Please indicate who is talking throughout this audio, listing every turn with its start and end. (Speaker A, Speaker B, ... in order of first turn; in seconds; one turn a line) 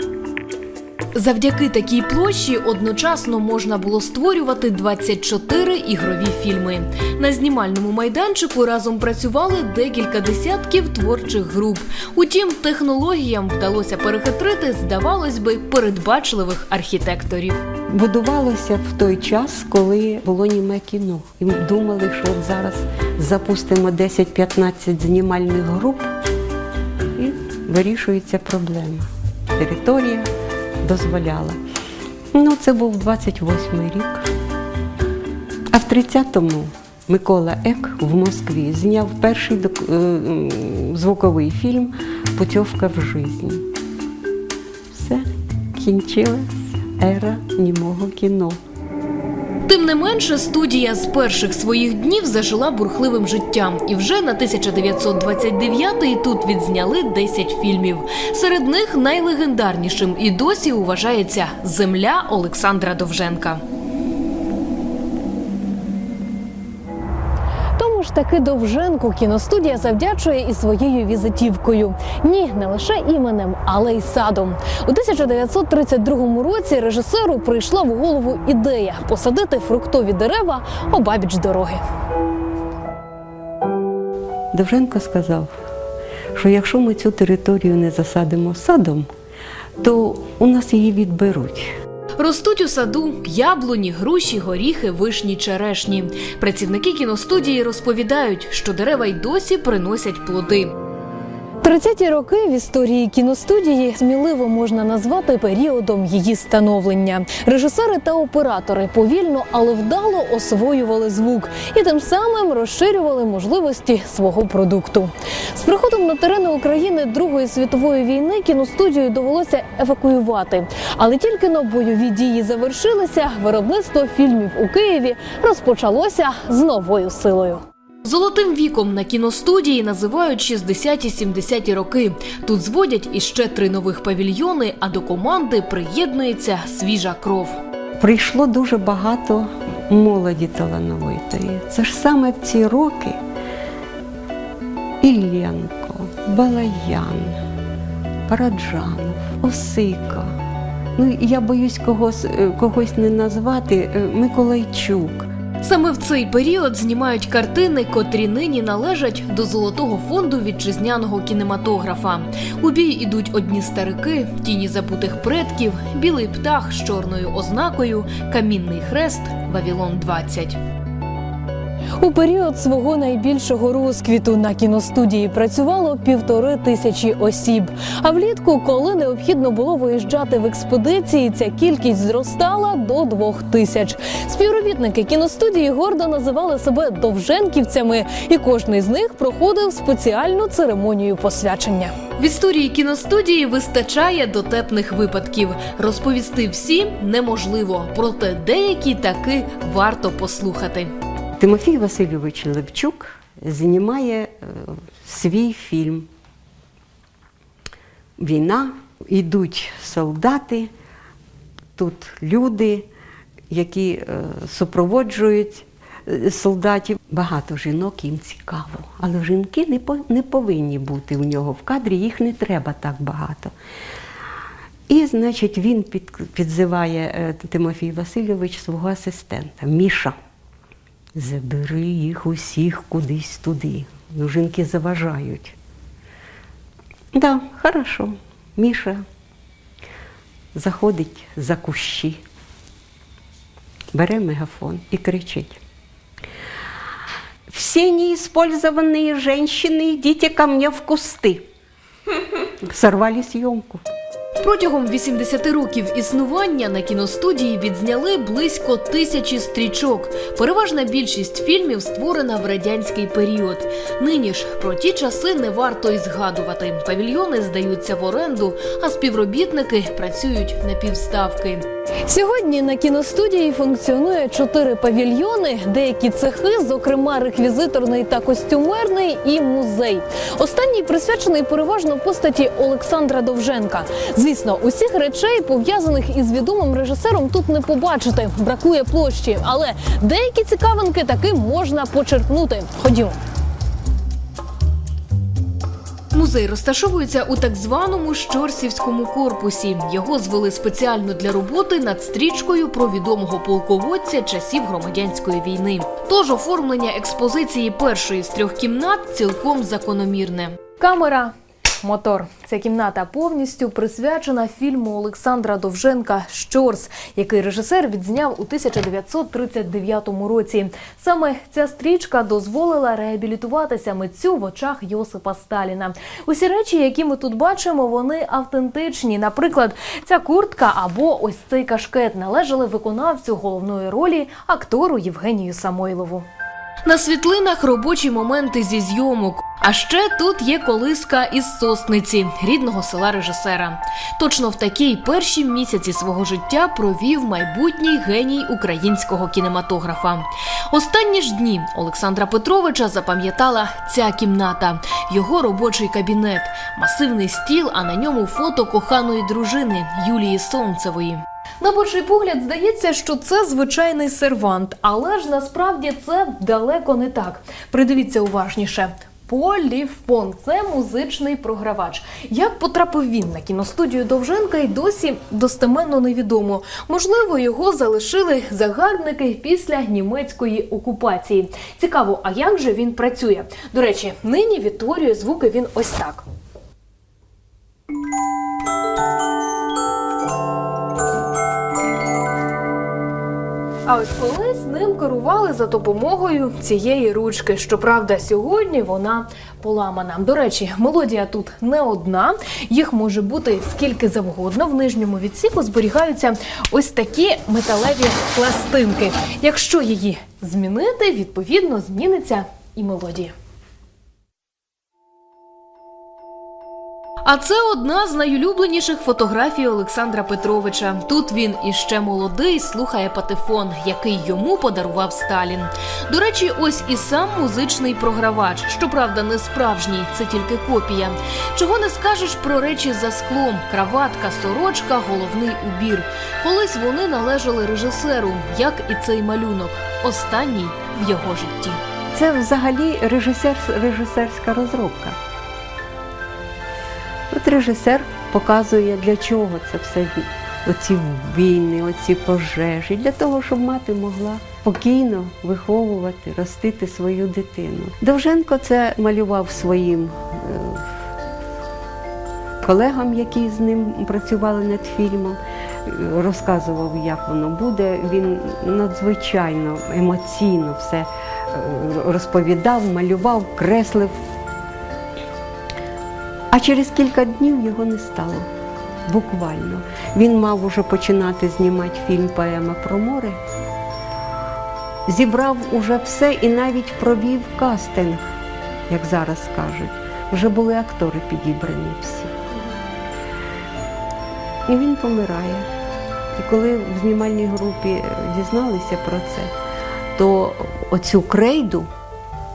Speaker A: 1.1-17.6
Speaker B: 17.9-26.1
Speaker B: 27.1-30.3
Speaker B: 30.8-31.6
Speaker B: 32.3-34.3
Speaker B: 35.7-43.6
Speaker B: 44.9-48.6
Speaker A: 49.6-63.6
Speaker C: 67.8-81.8
Speaker B: 84.5-85.5
Speaker B: 86.3-89.1
Speaker B: 89.8-91.7
Speaker A: 92.2-100.7
Speaker C: 101.7-115.1
Speaker C: 115.6-127.6
Speaker A: 128.0-137.6
Speaker B: 138.0-143.2
Speaker B: 145.0-147.4
Speaker B: 148.3-150.3
Speaker B: 150.9-155.3
Speaker A: 155.6-170.6
Speaker C: 172.0-191.9
Speaker A: 192.1-200.9
Speaker B: 201.4-206.1
Speaker B: 208.2-210.7
Speaker B: 211.8-212.8
Speaker B: 213.5-223.5
Speaker B: 224.9-230.2
Speaker B: 231.1-235.6
Speaker B: 237.1-239.0
Speaker B: 240.5-242.2
Speaker B: 243.9-245.6
Speaker B: 247.5-251.4
Speaker B: 252.6-253.8
Speaker A: 254.4-271.6
Speaker C: 272.1-293.1
Speaker A: 296.1-310.9
Speaker C: 310.9-311.3
Speaker C: 311.8-336.2
Speaker A: 313.9-317.9
Speaker A: 324.2-324.7
Speaker A: 336.9-361.2
Speaker C: 361.6-377.4
Speaker A: 376.1-379.9
Speaker C: 378.8-386.2
Speaker A: 384.2-384.8
Speaker C: 393.9-413.3
Speaker A: 417.2-441.8
Speaker B: 442.1-445.2
Speaker B: 447.3-460.9
Speaker B: 462.6-474.1
Speaker B: 476.5-478.5
Speaker B: 479.1-483.4
Speaker B: 485.1-488.2
Speaker B: 488.9-492.3
Speaker B: 494.7-495.7
Speaker B: 496.3-499.5
Speaker B: 500.1-501.9